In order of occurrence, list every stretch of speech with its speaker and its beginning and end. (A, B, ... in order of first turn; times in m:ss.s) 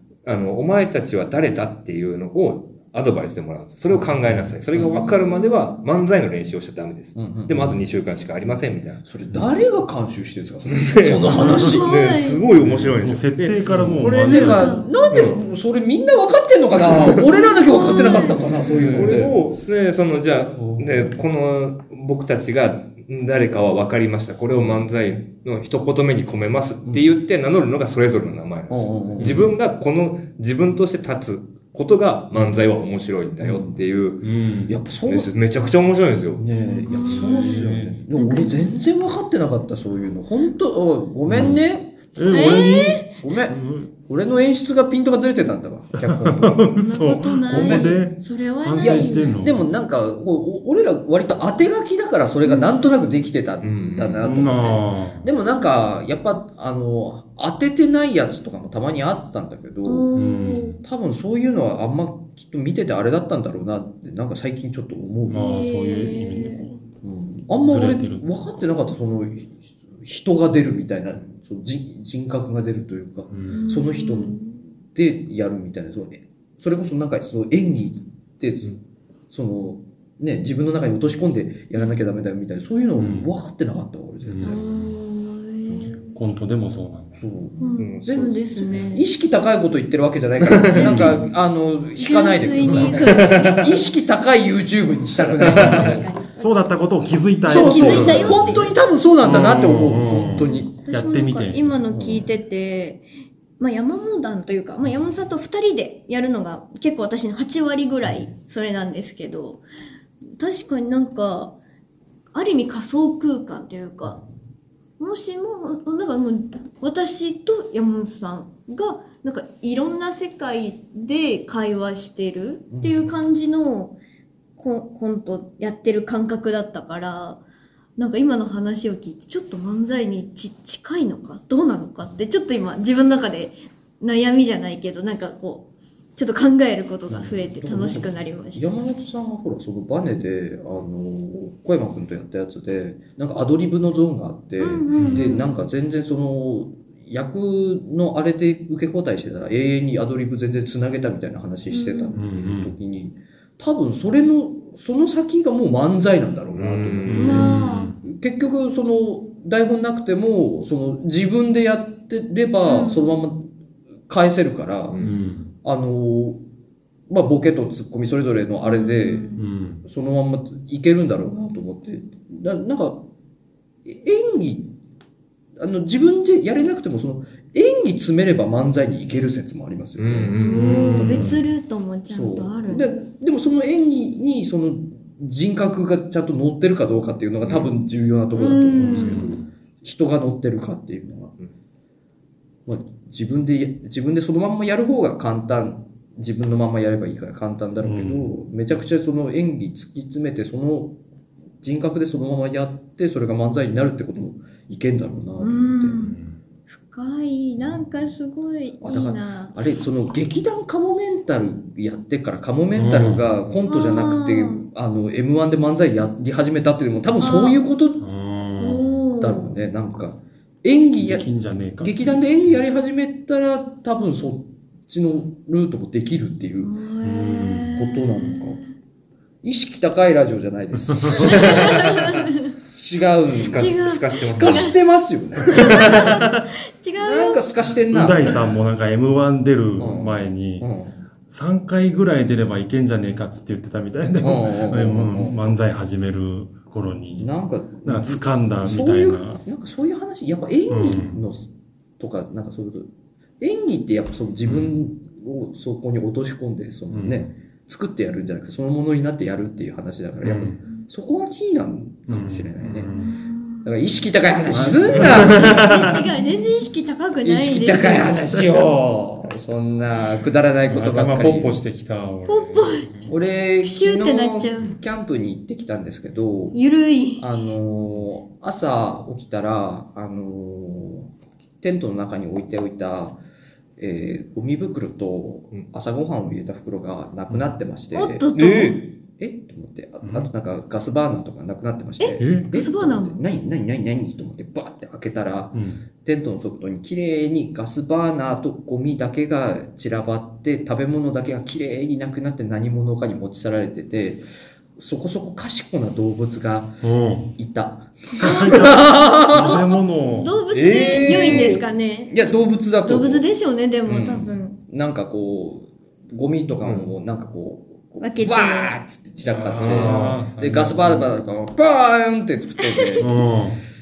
0:00.2-0:09.0 A
0:04.7-0:05.1 B
0:04.8-0:05.8 C
0:07.2-0:07.8 B
0:09.0-0:11.9 B
0:10.7-0:14.1 A
0:11.3-0:11.7 D
0:11.5-0:12.4 C
0:12.6-0:14.8 D
0:14.0-0:19.4 B
0:14.1-0:15.0 C
0:15.1-0:15.4 A
0:17.5-0:18.4 C
0:18.6-0:19.3 D
0:18.8-0:34.3 A
0:20.6-0:21.1 B
0:28.7-0:29.5 B
0:29.2-0:29.5 D
0:33.4-0:33.8 B
0:34.2-0:34.7 D
0:34.7-0:35.3 B
0:35.0-0:36.4 A
0:36.4-0:42.0 B
0:36.5-0:38.0 D
0:36.7-0:38.7 C
0:41.3-0:41.6 D
0:42.2-0:43.9 D
0:42.3-0:43.1 C
0:43.1-0:46.6 B
0:46.0-0:49.6 D
0:46.8-0:49.4 C
0:47.5-0:47.9 B
0:48.8-1:00.0 B
0:53.6-0:54.2 A
0:54.2-0:55.2 D
0:59.8-1:00.8 C
1:00.1-1:00.8 D
1:00.8-1:05.7 B
1:05.3-1:06.8 D
1:05.4-1:06.6 C
1:07.0-1:14.4 B
1:07.6-1:08.3 D
1:13.3-1:13.6 D
1:13.5-1:14.6 C
1:14.9-1:18.7 B
1:19.3-1:24.6 B
1:23.0-1:23.3 D
1:24.2-1:24.6 D
1:24.4-1:26.1 C
1:26.0-1:27.2 D
1:27.2-1:36.0 B
1:27.6-1:29.0 C
1:27.8-1:28.3 A
1:30.4-1:31.1 A
1:30.7-1:31.3 C
1:30.8-1:31.2 D
1:32.0-1:33.7 C
1:33.0-1:33.7 A
1:35.4-1:36.5 C
1:35.4-1:35.9 A
1:35.6-1:41.6 D
1:37.4-1:38.7 C
1:37.5-1:40.7 B
1:40.4-1:43.0 C
1:41.9-1:42.3 B
1:43.6-1:49.6 C
1:50.4-1:51.6 C
1:52.3-1:54.2 C
1:55.0-2:04.0 C
2:02.7-2:03.0 B
2:04.6-2:07.4 C
2:08.0-2:15.6 C
2:16.2-2:18.7 C
2:17.1-2:43.5 B
2:24.6-2:25.5 C
2:24.9-2:25.3 D
2:31.7-2:32.2 C
2:32.1-2:32.7 D
2:36.5-2:37.5 A
2:37.0-2:38.0 D
2:37.2-2:37.9 C
2:42.6-2:43.1 C
2:44.1-2:45.0 B
2:44.9-2:45.2 A
2:45.0-2:45.5 D
2:45.6-2:46.4 B
2:47.1-2:53.0 B
2:48.6-2:49.4 C
2:49.3-2:49.8 D
2:53.8-2:54.7 B
2:55.6-3:01.4 B
3:00.0-3:01.3 A
3:00.4-3:02.8 C
3:00.5-3:01.4 D
3:02.1-3:11.3 B
3:07.4-3:07.7 A
3:08.3-3:09.3 C
3:08.8-3:09.4 D
3:12.6-3:21.0 B
3:17.8-3:18.3 D
3:21.6-3:26.0 B
3:25.4-3:26.2 C
3:26.0-3:26.3 D
3:26.7-3:29.5 C
3:28.8-3:38.0 B
3:32.7-3:33.2 D
3:33.7-3:34.6 C
3:37.2-3:37.6 C
3:38.0-3:38.9 D
3:38.6-3:39.5 C
3:39.2-3:41.3 B
3:41.0-3:42.2 D
3:41.8-3:46.7 B
3:46.6-3:48.7 C
3:47.0-3:47.7 D
3:47.7-3:48.6 B
3:49.4-3:51.9 B
3:50.9-3:51.3 D
3:51.2-3:52.5 C
3:51.2-3:52.2 A
3:52.7-3:56.2 B
3:53.3-3:54.8 A
3:53.3-3:54.7 C
3:55.5-3:57.4 C
3:55.6-3:56.4 A
3:57.0-3:58.3 B
3:57.9-4:00.6 D
3:59.8-4:01.0 B
4:01.3-4:07.3 D
4:04.2-4:05.4 B
4:07.2-4:12.9 B
4:07.8-4:09.4 D
4:10.7-4:11.2 D
4:13.4-4:22.9 B
4:14.5-4:14.7 D
4:16.9-4:17.2 D
4:20.2-4:20.6 D
4:22.1-4:23.2 D
4:22.9-4:23.6 C
4:23.6-4:26.0 B
4:24.5-4:25.6 D
4:25.0-4:25.9 A
4:25.2-4:28.2 C
4:27.2-4:31.6 B
4:30.7-4:33.1 D
4:32.3-4:33.1 C
4:33.1-4:36.6 B
4:33.6-4:34.8 C
4:36.5-4:37.4 C
4:37.2-4:43.2 B
4:43.8-4:48.3 B
4:47.9-4:48.8 C
4:48.3-4:48.9 A
4:49.2-5:04.2 B
4:52.0-4:53.2 C
4:52.2-4:52.5 D
4:55.5-4:55.8 D
5:04.8-5:06.8 B
5:06.8-5:07.3 D
5:07.3-5:09.6 B
5:08.2-5:12.2 C
5:08.2-5:10.4 D
5:10.5-5:11.6 A
5:10.8-5:13.2 B
5:12.8-5:14.6 C
5:13.9-5:23.2 B
5:18.0-5:18.7 C
5:19.3-5:21.1 D
5:19.6-5:20.1 A
5:22.6-5:23.0 C
5:23.0-5:23.6 D